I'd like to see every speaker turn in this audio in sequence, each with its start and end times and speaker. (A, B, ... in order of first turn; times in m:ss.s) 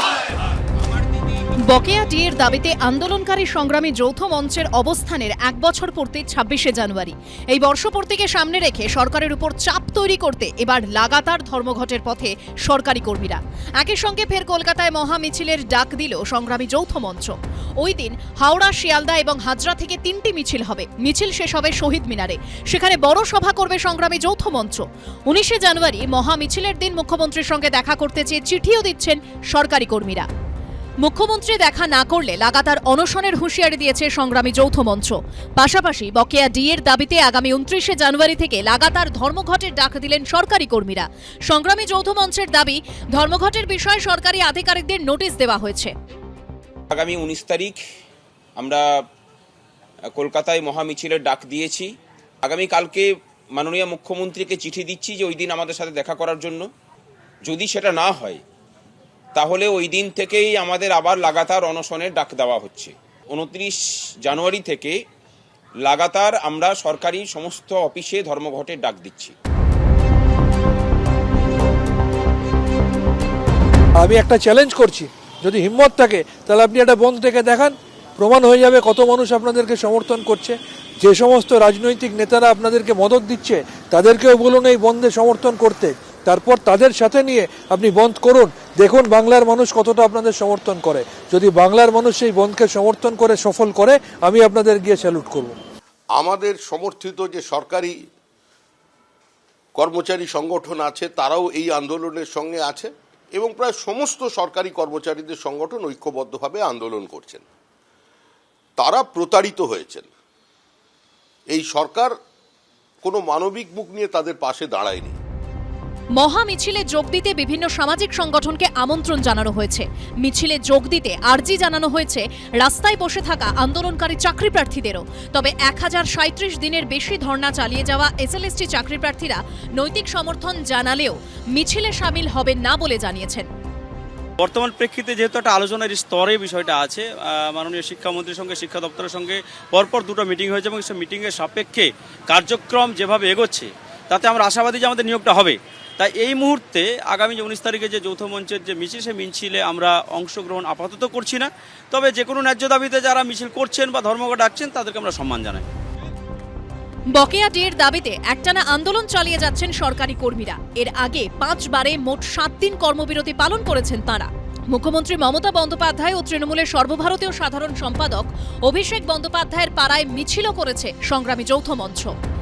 0:00.8-0:01.5 A
0:01.7-0:30.3 B
0:31.0-0:45.9 B
0:46.9-0:47.8 A
0:48.6-0:48.9 A
0:50.1-0:51.9 A
0:52.4-0:56.7 A
0:57.4-0:58.4 A
0:59.4-1:05.0 A
1:05.8-1:09.4 A
1:14.0-1:35.6 C
1:36.2-1:38.0 D
1:39.8-1:47.4 D
1:48.8-1:50.1 D
1:51.5-1:52.1 D
1:53.0-1:55.2 D
1:56.2-2:13.5 B
2:14.4-2:35.7 E
2:37.2-2:52.1 B